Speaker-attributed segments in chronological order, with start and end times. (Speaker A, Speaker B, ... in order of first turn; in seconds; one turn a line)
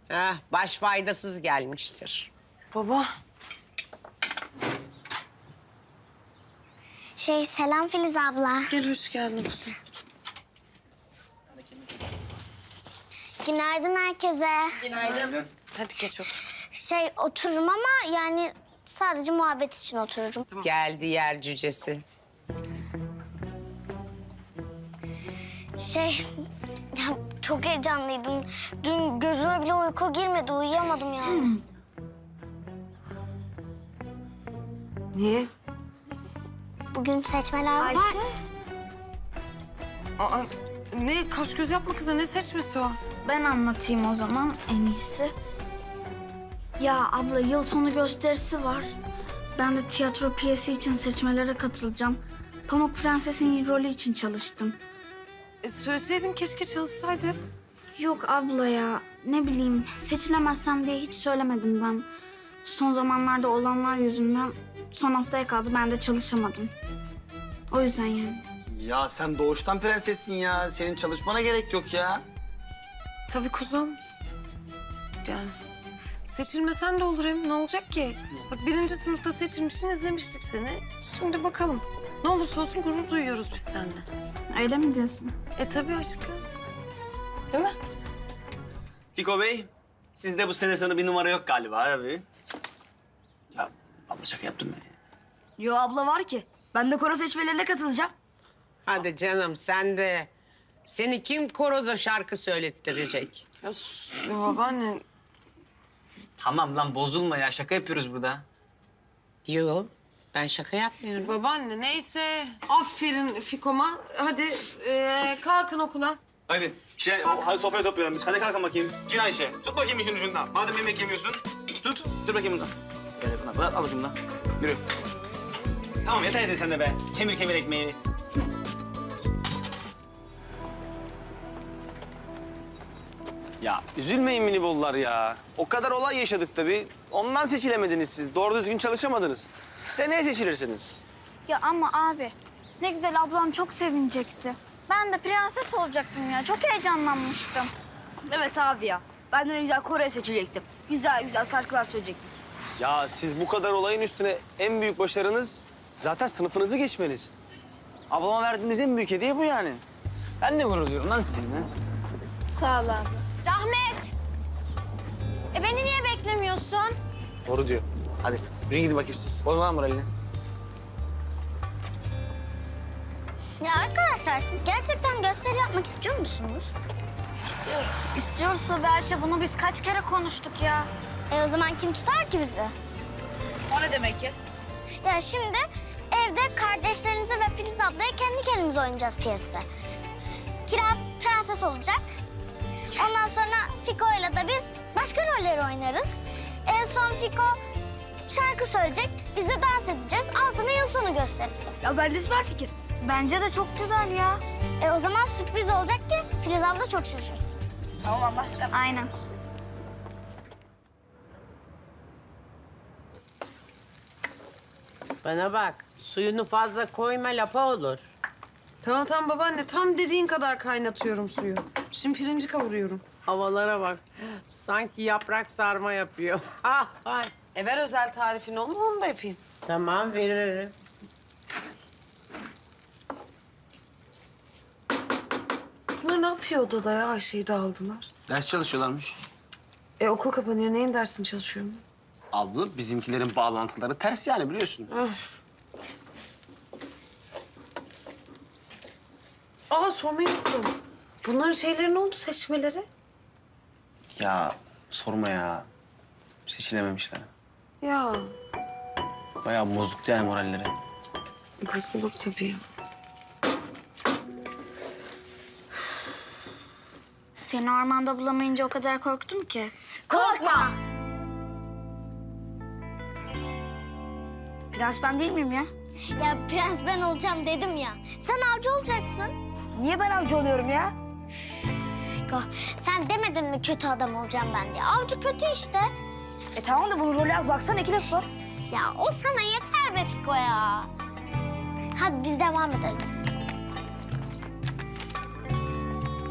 Speaker A: 0.1-2.3
Speaker B: 2.7-3.1
Speaker C: 7.2-8.7
Speaker B: 8.7-9.8
Speaker C: 13.4-14.9
Speaker B: 15.7-16.4
Speaker C: 16.7-20.5
Speaker A: 20.6-22.0
Speaker C: 25.8-26.2
Speaker C: 26.9-31.5
Speaker B: 35.1-35.5
Speaker C: 36.9-38.2
Speaker D: 37.8-38.2
Speaker B: 40.2-43.0
Speaker D: 43.2-45.3
Speaker D: 46.8-48.9
Speaker D: 49.6-54.8
Speaker B: 55.6-57.5
Speaker D: 58.0-62.1
Speaker D: 62.6-66.7
Speaker D: 67.7-68.4
Speaker E: 68.7-72.2
Speaker B: 73.3-74.0
Speaker B: 75.2-75.5
Speaker B: 76.2-84.0
Speaker D: 84.5-85.3
Speaker B: 85.6-86.4
Speaker E: 89.2-92.2
Speaker E: 93.5-94.9
Speaker F: 95.6-98.1
Speaker A: 98.9-100.3
Speaker A: 100.8-103.4
Speaker B: 103.6-105.0
Speaker E: 106.4-108.5
Speaker A: 109.5-111.2
Speaker B: 111.2-116.2
Speaker E: 116.5-124.9
Speaker E: 126.0-128.0
Speaker E: 133.6-141.0
Speaker D: 141.5-147.7
Speaker F: 148.3-152.3
Speaker E: 152.8-157.3
Speaker E: 158.1-159.8
Speaker E: 160.4-161.7
Speaker D: 162.5-163.2
Speaker B: 163.4-164.1
Speaker B: 165.5-166.9
Speaker E: 167.5-170.1
Speaker C: 173.6-176.4
Speaker B: 176.4-176.7
Speaker D: 177.6-180.9
Speaker C: 181.3-182.7
Speaker F: 183.7-184.3
Speaker C: 185.0-189.7
Speaker C: 190.7-192.0
Speaker C: 193.0-196.1
Speaker C: 196.7-197.6
Speaker C: 198.3-201.7
Speaker F: 201.8-202.7
Speaker D: 203.0-204.4
Speaker C: 204.8-207.6
Speaker F: 208.0-208.7
Speaker D: 208.7-209.1
Speaker A: 215.2-218.0
Speaker B: 218.8-223.0
Speaker A: 223.3-227.3
Speaker B: 227.5-229.4
Speaker A: 229.7-230.7
Speaker B: 236.0-238.1
Speaker E: 238.3-239.2
Speaker B: 240.0-241.8
Speaker E: 242.3-244.9
Speaker B: 244.9-245.2
Speaker B: 249.7-252.9
Speaker E: 254.1-255.7
Speaker E: 256.5-257.3
Speaker B: 257.8-258.3
Speaker E: 259.4-260.7
Speaker B: 261.6-262.6
Speaker D: 267.4-269.7
Speaker F: 270.1-270.7
Speaker C: 270.1-270.7
Speaker D: 274.7-275.7
Speaker C: 276.1-279.4
Speaker F: 279.8-280.9
Speaker C: 282.3-285.9
Speaker F: 286.6-288.3
Speaker C: 288.7-290.9
Speaker C: 291.9-293.1